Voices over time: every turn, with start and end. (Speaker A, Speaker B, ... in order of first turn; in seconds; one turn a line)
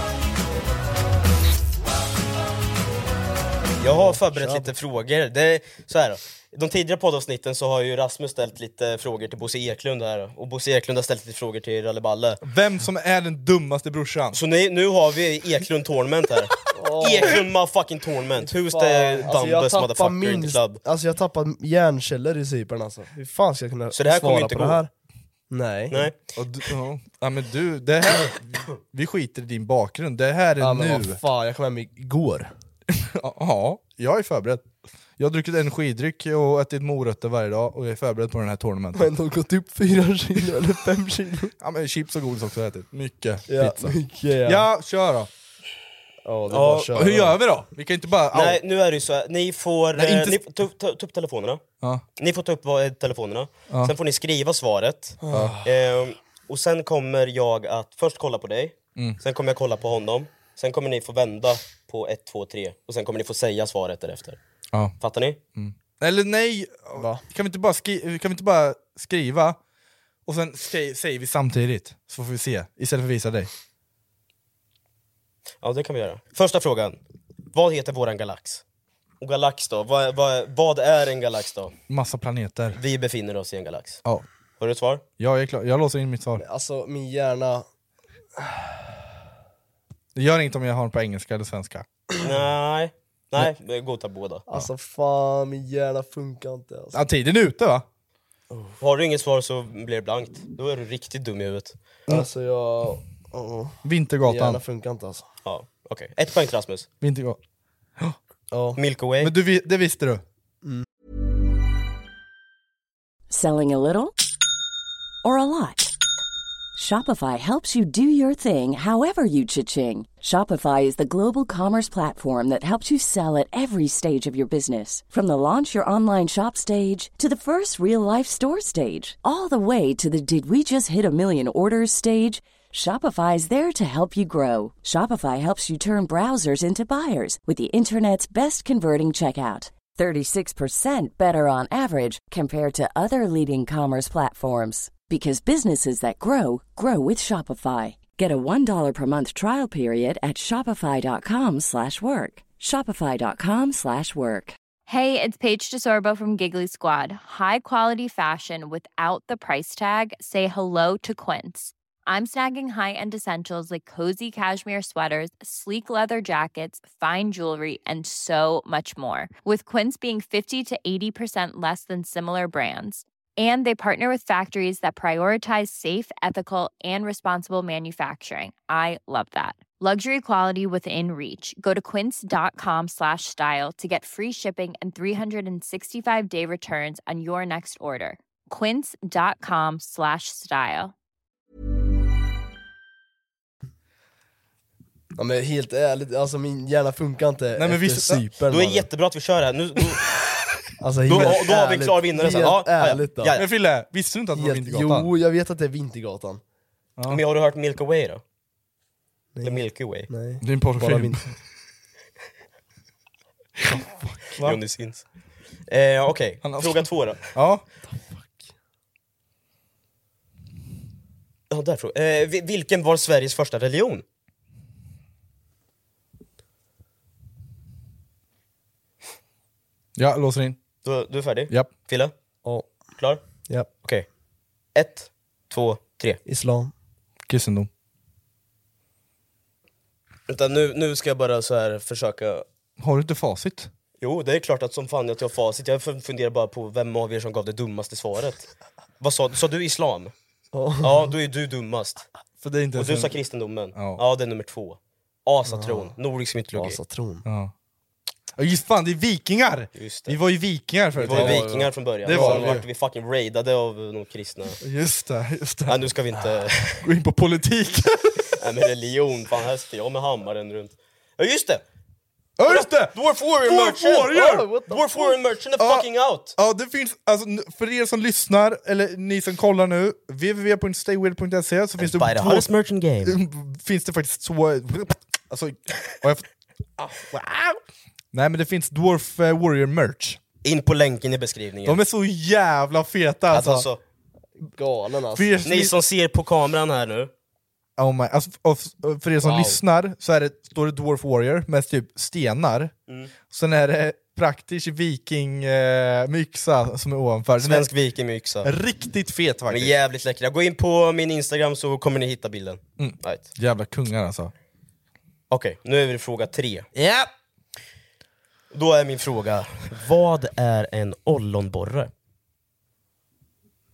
Speaker A: 3.8-12.4
Speaker B: 3.9-4.7
Speaker C: 12.4-14.4
Speaker A: 14.3-20.8
Speaker B: 16.7-17.4
Speaker B: 18.5-24.9
Speaker A: 23.9-24.8
Speaker B: 25.5-26.1
Speaker A: 25.9-26.2
Speaker C: 26.4-31.2
Speaker B: 30.6-32.5
Speaker C: 32.9-34.6
Speaker C: 35.2-39.1
Speaker B: 39.0-41.5
Speaker C: 41.6-45.3
Speaker B: 43.5-44.6
Speaker B: 46.2-47.4
Speaker A: 46.5-47.0
Speaker C: 46.9-48.6
Speaker A: 48.3-51.6
Speaker C: 50.0-50.4
Speaker A: 52.2-64.4
Speaker B: 55.2-55.7
Speaker C: 55.3-55.6
Speaker A: 65.0-65.4
Speaker C: 65.5-69.6
Speaker B: 67.0-67.2
Speaker C: 70.3-73.5
Speaker A: 75.6-77.0
Speaker A: 77.5-78.6
Speaker A: 79.2-81.7
Speaker C: 81.9-82.8
Speaker A: 82.8-84.0
Speaker A: 84.6-85.0
Speaker C: 85.2-86.4
Speaker B: 86.4-87.6
Speaker B: 88.4-88.8
Speaker C: 90.1-91.9
Speaker A: 92.2-94.5
Speaker B: 94.5-97.0
Speaker C: 96.9-97.8
Speaker B: 98.5-98.8
Speaker A: 98.8-101.7
Speaker B: 102.1-105.2
Speaker C: 103.8-104.6
Speaker A: 105.5-106.9
Speaker C: 107.0-107.4
Speaker B: 108.5-108.8
Speaker A: 108.8-109.3
Speaker C: 109.2-110.2
Speaker D: 113.3-114.1
Speaker D: 115.2-116.0
Speaker D: 116.8-154.6
Speaker E: 154.9-190.9
Speaker B: 195.2-198.9
Speaker C: 197.6-198.2
Speaker A: 198.5-200.1
Speaker B: 200.8-203.4
Speaker C: 201.0-201.4
Speaker A: 201.1-203.4
Speaker C: 203.3-205.1
Speaker B: 204.4-206.4
Speaker A: 207.1-208.2
Speaker B: 209.3-211.2
Speaker A: 209.4-210.1
Speaker C: 210.4-211.3
Speaker C: 213.6-214.6
Speaker A: 214.3-215.1
Speaker A: 215.7-217.3
Speaker C: 216.4-217.6
Speaker A: 221.5-224.0
Speaker C: 229.9-230.6
Speaker A: 230.8-232.1
Speaker A: 233.8-234.1
Speaker A: 234.7-236.2
Speaker B: 236.3-236.7
Speaker C: 237.3-237.7
Speaker A: 240.3-242.4
Speaker C: 242.8-243.7
Speaker A: 244.0-248.5
Speaker A: 249.0-250.1
Speaker B: 250.5-251.1
Speaker A: 250.8-252.1
Speaker C: 252.4-253.1
Speaker A: 252.7-256.8
Speaker C: 253.7-254.0
Speaker B: 255.5-255.9
Speaker B: 256.5-257.2
Speaker C: 257.2-257.5
Speaker C: 258.4-261.5
Speaker A: 259.8-260.2
Speaker B: 261.0-262.6
Speaker A: 261.0-264.6
Speaker C: 262.0-262.6
Speaker C: 264.6-265.8
Speaker A: 265.7-266.9
Speaker C: 266.8-268.3
Speaker A: 268.3-271.6
Speaker C: 272.4-274.5
Speaker A: 272.5-276.3
Speaker B: 274.1-275.2
Speaker C: 275.6-282.5
Speaker A: 281.8-283.2
Speaker C: 283.0-287.6
Speaker C: 288.1-290.2
Speaker A: 290.4-291.8
Speaker C: 291.6-293.7
Speaker A: 293.3-293.8
Speaker B: 294.5-295.3
Speaker C: 295.1-295.7
Speaker A: 295.4-297.1
Speaker C: 297.8-302.7
Speaker A: 299.2-299.6
Speaker C: 303.3-307.7
Speaker A: 307.4-308.5
Speaker C: 308.4-309.8
Speaker A: 309.5-313.2
Speaker C: 312.8-314.3
Speaker A: 315.3-316.7
Speaker C: 316.7-317.1
Speaker A: 318.5-321.9